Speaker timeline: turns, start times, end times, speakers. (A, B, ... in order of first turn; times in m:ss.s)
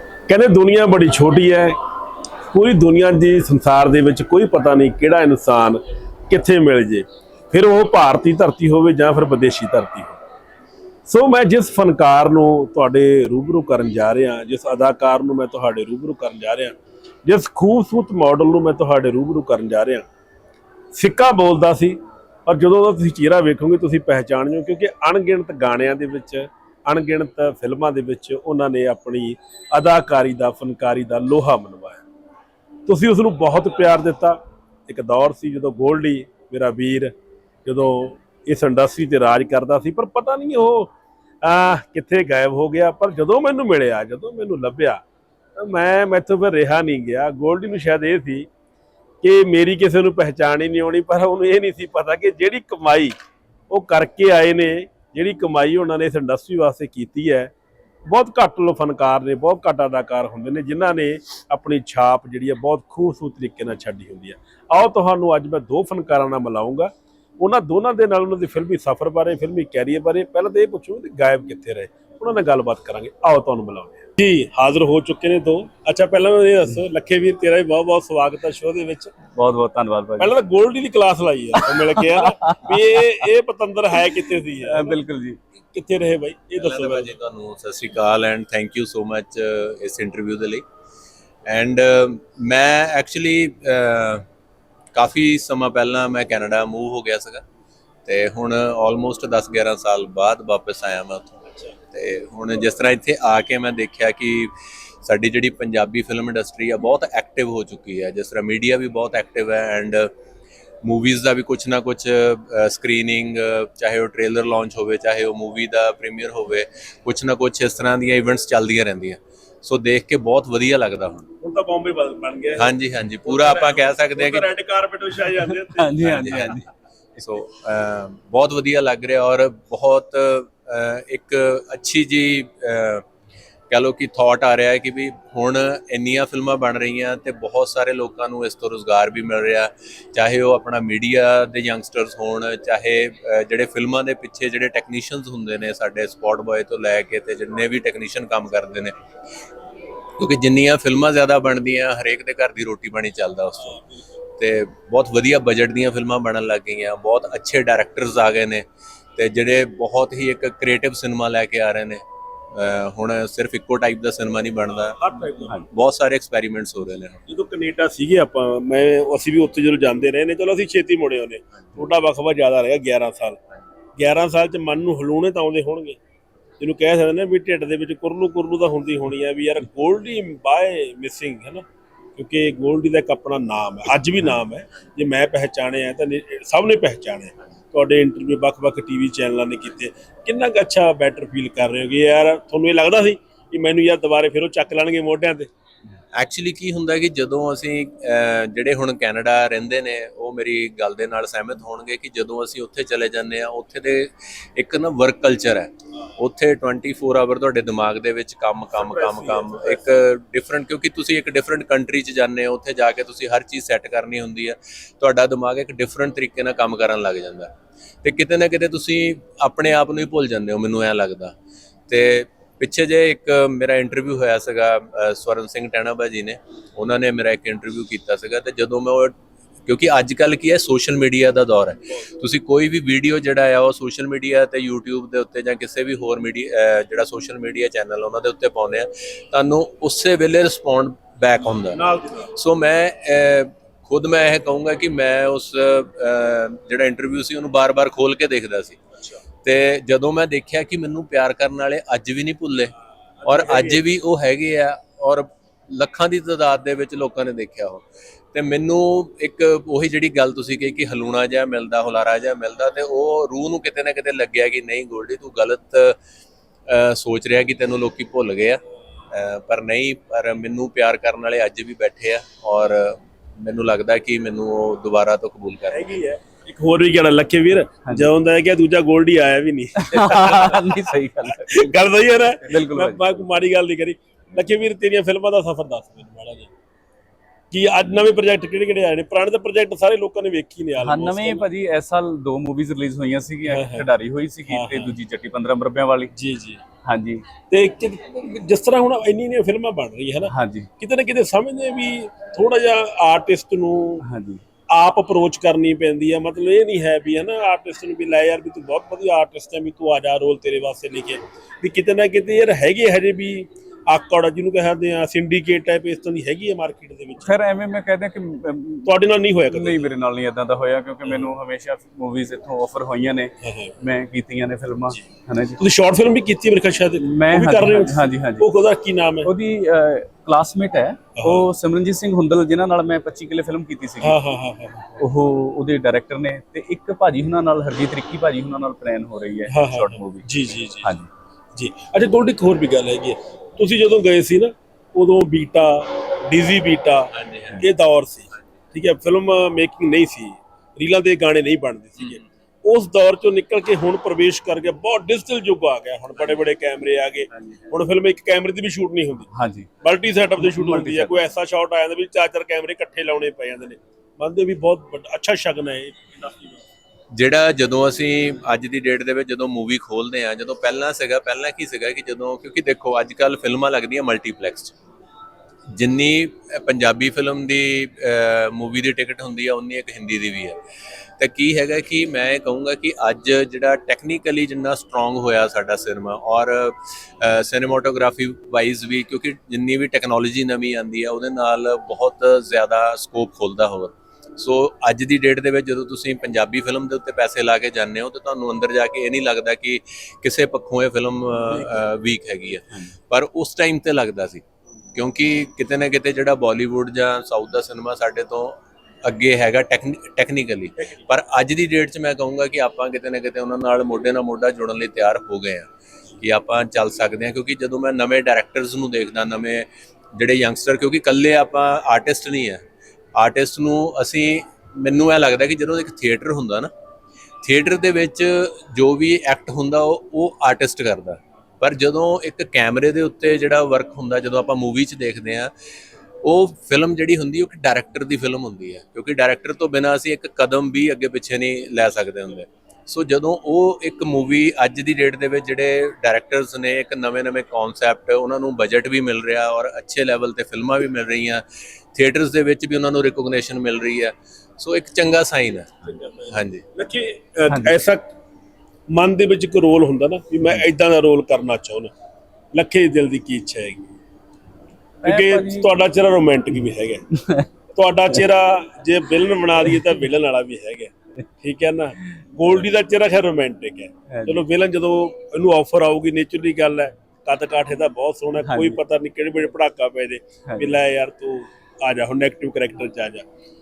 0:00.3-0:01.8 A
0:02.5-0:10.2 A
0:11.1-0:20.1 A
0:20.9-0:32.0 A
0:32.9-0:37.1 A
0:37.6-0:45.0 A
0:45.6-0:48.5 A
0:49.2-0:53.2 A
0:53.7-0:57.5 A
0:58.1-1:19.1 A
1:19.3-1:20.3 B
1:20.2-1:25.0 A
1:21.6-1:23.0 B
1:24.6-1:25.4 B
1:25.7-1:27.1 A
1:26.6-1:30.6 C
1:31.5-1:34.2 C
1:34.9-1:37.4 C
1:38.1-1:41.4 C
1:41.9-1:44.5 C
1:45.0-1:50.1 C
1:50.8-2:01.2 C
2:01.4-2:06.5 A
2:02.6-2:04.5 C
2:05.4-2:06.7 B
2:06.0-2:06.6 C
2:07.2-2:13.0 C
2:13.7-2:28.9 C
2:30.2-2:33.8 C
2:33.6-2:34.0 A
2:34.4-2:38.6 C
2:39.2-2:45.0 C
2:44.7-2:45.7 A
2:45.7-2:47.2 C
2:47.3-2:53.4 A
2:54.0-2:56.0 A
2:56.6-3:01.6 A
3:02.2-3:15.5 A
3:16.2-3:37.5 C
3:28.7-3:29.8 A
3:38.0-3:41.3 C
3:41.9-3:49.2 C
3:49.7-4:01.8 C
4:01.7-4:02.3 A
4:02.3-4:08.8 C
4:09.4-4:12.7 C
4:13.2-4:13.8 A
4:13.2-4:26.0 C
4:26.7-4:28.6 C
4:29.1-4:35.9 C
4:35.7-4:46.5 A
4:39.8-4:41.8 B
4:42.4-4:43.2 B
4:47.5-4:51.5 A
4:50.8-4:56.1 B
4:53.5-4:53.9 A
4:54.5-4:55.0 A
4:56.1-4:56.6 A
4:56.8-4:57.3 B
4:57.5-5:04.0 A
5:00.3-5:00.7 B
5:04.0-5:04.4 B
5:04.7-5:17.3 A
5:17.2-5:18.9 B
5:18.8-5:19.8 A
5:19.5-5:25.6 B
5:23.4-5:23.7 A
5:25.6-5:29.3 A
5:27.0-5:28.5 B
5:29.2-5:34.2 B
5:31.2-5:31.5 A
5:34.0-5:35.0 A
5:35.0-5:40.2 B
5:39.5-5:40.9 A
5:40.8-5:41.1 B
5:41.6-5:59.3 A
5:47.1-5:47.6 C
5:57.3-5:57.6 C
5:59.3-5:59.7 B
5:59.8-6:06.6 A
6:00.4-6:01.3 B
6:07.1-6:14.7 C
6:15.8-6:20.6 C
6:21.2-6:44.4 C
6:44.9-7:02.6 C
7:03.2-7:06.7 C
7:07.4-7:15.5 C
7:16.2-7:35.7 C
7:35.9-7:38.1 A
7:36.3-7:36.6 C
7:37.5-7:37.8 B
7:38.9-7:41.9 A
7:42.5-7:43.9 A
7:45.0-7:45.7 B
7:45.0-7:47.0 A
7:47.1-7:47.5 B
7:47.7-8:03.2 A
7:54.1-7:54.4 B
7:58.4-7:58.8 B
8:00.5-8:00.7 B